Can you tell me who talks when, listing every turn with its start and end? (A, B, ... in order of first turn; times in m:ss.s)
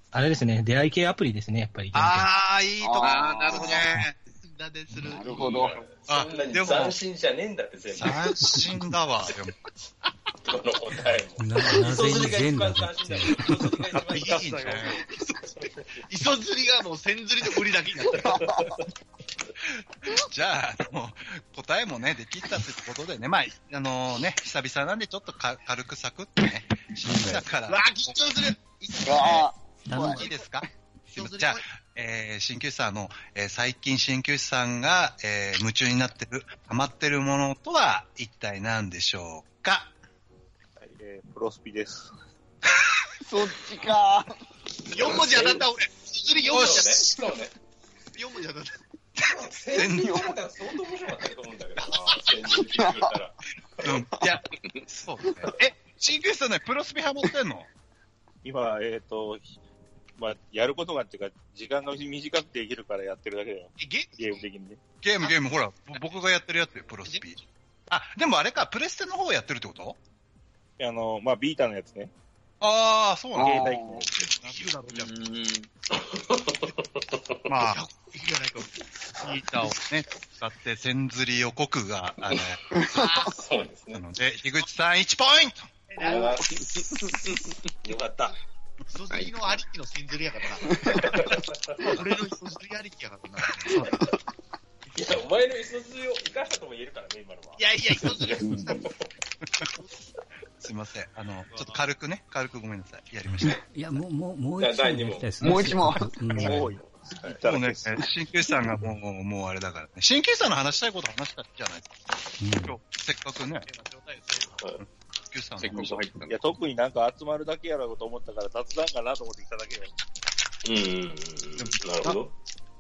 0:00.1-0:02.3 A
0:01.9-0:05.8 B
0:02.8-0:03.8 C
0:03.0-0:03.8 D
0:05.0-0:05.8 C
0:05.3-0:08.2 E
0:06.1-0:07.0 F
0:07.9-0:09.5 F
0:10.4-0:15.0 E
0:11.4-0:13.8 G
0:14.0-0:14.9 H
0:14.1-0:15.4 B
0:14.1-0:15.1 F
0:15.6-0:15.9 E
0:16.0-0:18.6 B
0:18.1-0:18.7 C
0:18.3-0:18.9 E
0:19.6-0:28.3 F
0:27.0-0:27.4 G
0:27.7-0:29.0 B
0:28.9-0:39.9 F
0:29.0-0:30.3 C
0:29.9-0:30.2 G
0:30.0-0:30.4 B
0:31.1-0:31.6 B
0:40.8-0:42.1 H
0:43.2-0:44.3 C
0:44.9-0:47.2 B
0:45.0-0:45.4 C
0:45.1-0:45.6 E
0:46.4-0:47.5 E
0:46.5-0:46.9 F
0:48.2-0:48.8 B
0:49.2-0:50.3 F
0:49.2-0:53.9 E
0:52.5-0:53.1 C
0:53.8-0:57.7 F
0:53.9-0:54.4 C
0:58.4-0:59.5 H
1:00.2-1:04.8 H
1:03.8-1:04.4 B
1:05.0-1:10.0 F
1:10.8-1:12.1 H
1:12.6-1:14.7 F
1:13.3-1:14.1 C
1:13.4-1:14.0 H
1:14.2-1:15.2 B
1:14.9-1:15.7 D
1:15.9-1:17.4 E
1:17.5-1:17.8 F
1:17.7-1:18.7 B
1:19.1-1:22.6 F
1:22.7-1:23.3 C
1:23.0-1:23.3 B
1:23.1-1:24.0 E
1:23.9-1:25.7 F
1:25.9-1:26.4 B
1:26.0-1:26.7 E
1:27.8-1:28.4 E
1:28.9-1:31.0 B
1:29.1-1:29.6 D
1:30.8-1:31.8 E
1:31.8-1:33.8 B
1:33.6-1:34.0 F
1:34.9-1:39.1 E
1:37.6-1:38.9 B
1:38.4-1:38.8 C
1:40.6-1:43.6 F
1:43.3-1:46.8 G
1:44.6-1:45.3 E
1:45.4-1:46.6 C
1:46.3-1:48.0 H
1:46.7-1:47.4 E
1:47.4-1:52.0 F
1:52.4-1:52.8 G
1:52.6-1:53.7 F
1:53.7-1:54.6 B
1:54.8-1:56.1 F
1:55.6-1:56.4 D
1:56.2-1:59.9 H
2:00.6-2:02.3 E
2:01.6-2:02.3 F